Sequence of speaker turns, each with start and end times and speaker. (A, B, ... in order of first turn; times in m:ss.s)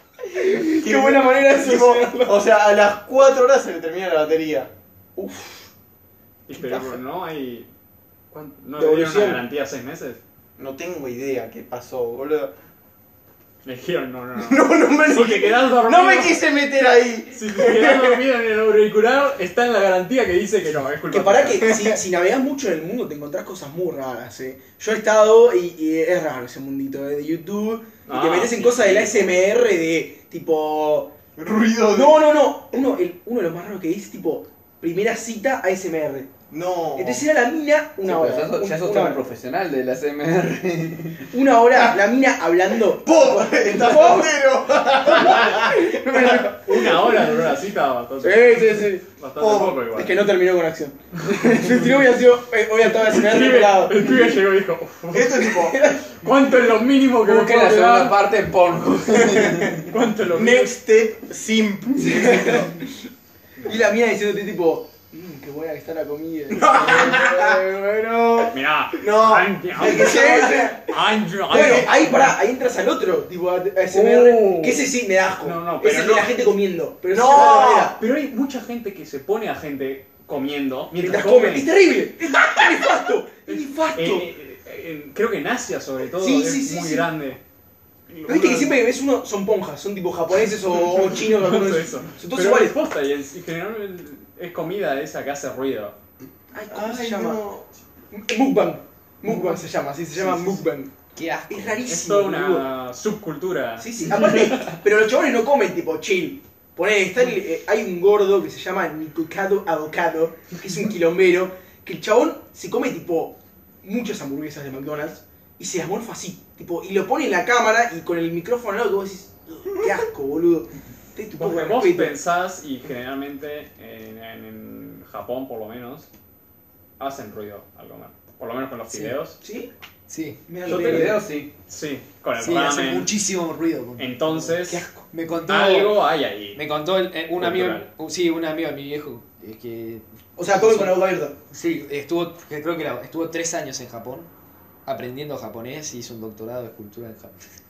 0:00.3-0:02.5 A
0:00.8-0:04.7 B
0:05.2-0:05.7 A
0:06.5-0:07.7 C
0:06.6-0:06.9 B
0:08.3-0:10.2 C
0:08.8-0:09.5 A
0:10.6-0:12.5 B
0:13.6-0:16.4 C
0:14.4-0:18.2 B
0:17.3-0:21.6 C
0:21.1-0:31.2 A
0:21.6-0:22.0 B
0:28.1-0:29.3 C
0:31.3-0:32.3 B
0:31.9-0:39.2 A
0:36.5-0:37.3 B
0:38.1-0:41.3 D
0:41.3-0:44.4 A
0:43.0-0:46.3 B
0:45.0-0:47.1 A
0:46.6-0:50.2 C
0:48.2-0:49.2 A
0:49.4-0:49.9 B
0:49.9-0:54.4 A
0:53.1-0:55.4 C
0:55.1-0:55.8 B
0:55.3-0:56.1 A
0:56.1-0:58.2 C
0:57.2-0:59.8 D
0:59.3-0:59.8 B
0:59.9-1:00.8 C
1:00.3-1:02.7 B
1:02.0-1:02.9 A
1:03.6-1:08.5 A
1:06.5-1:07.6 B
1:08.5-1:12.3 C
1:09.0-1:10.8 B
1:09.8-1:10.9 A
1:11.5-1:18.0 A
1:11.5-1:11.9 B
1:13.9-1:14.8 C
1:15.4-1:16.3 C
1:17.1-1:17.9 B
1:17.2-1:21.7 C
1:21.0-1:24.3 A
1:23.4-1:27.4 C
1:26.1-1:27.1 A
1:28.1-1:28.8 C
1:28.3-1:32.8 A
1:31.2-1:36.0 C
1:36.5-1:37.5 A
1:36.7-1:37.7 B
1:38.1-1:40.9 A
1:41.2-1:41.8 E
1:41.5-1:42.7 A
1:41.9-1:43.9 C
1:43.8-2:02.2 A
2:01.4-2:06.1 C
2:07.0-2:09.4 C
2:08.9-2:09.2 E
2:09.4-2:09.7 A
2:10.1-2:10.4 E
2:10.5-2:11.2 A
2:10.6-2:11.5 D
2:10.7-2:11.2 C
2:11.7-2:13.1 C
2:12.4-2:16.0 E
2:14.0-2:14.9 C
2:15.5-2:16.6 C
2:16.5-2:21.0 E
2:17.4-2:17.9 C
2:20.4-2:21.4 A
2:21.5-2:24.3 E
2:24.9-2:27.4 E